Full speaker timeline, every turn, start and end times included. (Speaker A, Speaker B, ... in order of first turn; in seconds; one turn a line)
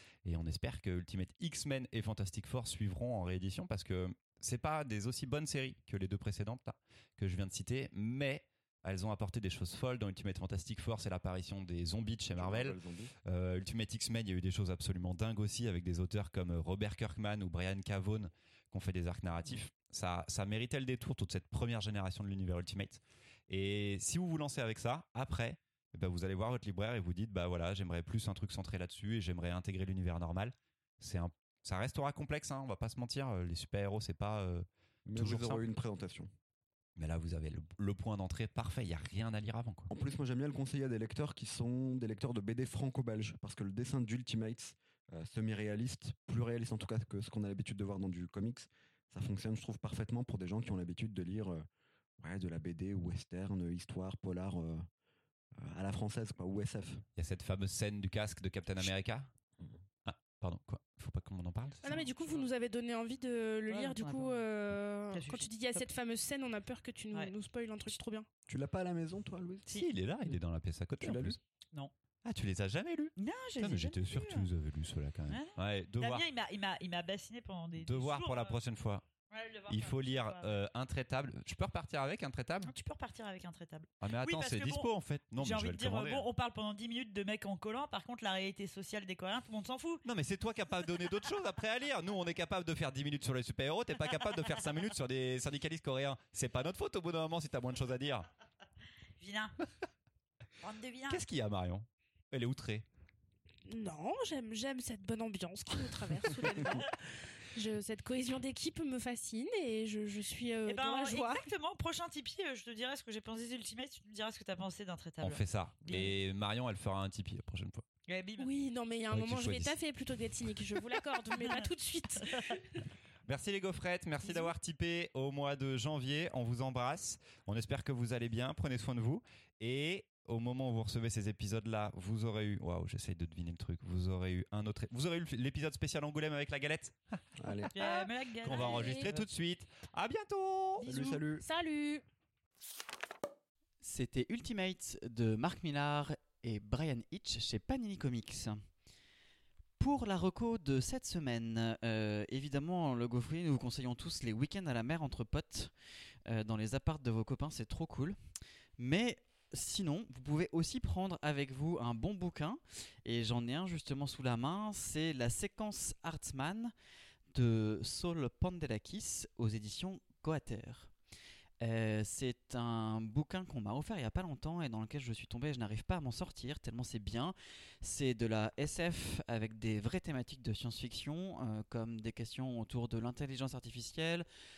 Speaker A: 0.2-35.6
Speaker B: 12.3-13.1
Speaker B: 35.0-36.3
Speaker A: 37.0-39.9
Speaker B: 39.9-51.6
Speaker B: 52.2-54.9
Speaker B: 55.5-57.0
Speaker A: 57.1-59.3
Speaker A: 60.0-62.1
Speaker C: 61.8-68.3
Speaker D: 63.6-64.4
Speaker D: 65.1-65.9
Speaker B: 68.5-69.7
Speaker A: 69.7-71.4
Speaker B: 71.0-71.4
Speaker A: 72.2-76.2
Speaker D: 73.2-74.5
Speaker D: 75.3-78.6
Speaker A: 77.8-79.0
Speaker D: 79.3-80.5
Speaker A: 79.7-82.7
Speaker D: 82.7-90.0
Speaker A: 84.0-86.2
Speaker A: 90.0-98.3
Speaker D: 99.2-99.5
Speaker D: 100.6-101.2
Speaker A: 101.1-102.8
Speaker C: 103.7-107.0
Speaker C: 107.5-111.5
Speaker D: 110.7-116.1
Speaker A: 115.2-117.8
Speaker D: 118.1-118.5
Speaker C: 118.4-122.6
Speaker A: 119.1-119.8
Speaker A: 123.3-137.2
Speaker B: 137.4-137.7
Speaker D: 137.7-139.2
Speaker A: 138.4-140.9
Speaker C: 138.5-139.1
Speaker C: 140.8-142.0
Speaker B: 140.8-141.4
Speaker E: 143.8-148.6
Speaker E: 149.8-155.7
Speaker E: 156.3-158.2
Speaker E: 158.8-166.7
Speaker E: 167.3-170.9
Speaker E: 171.6-184.2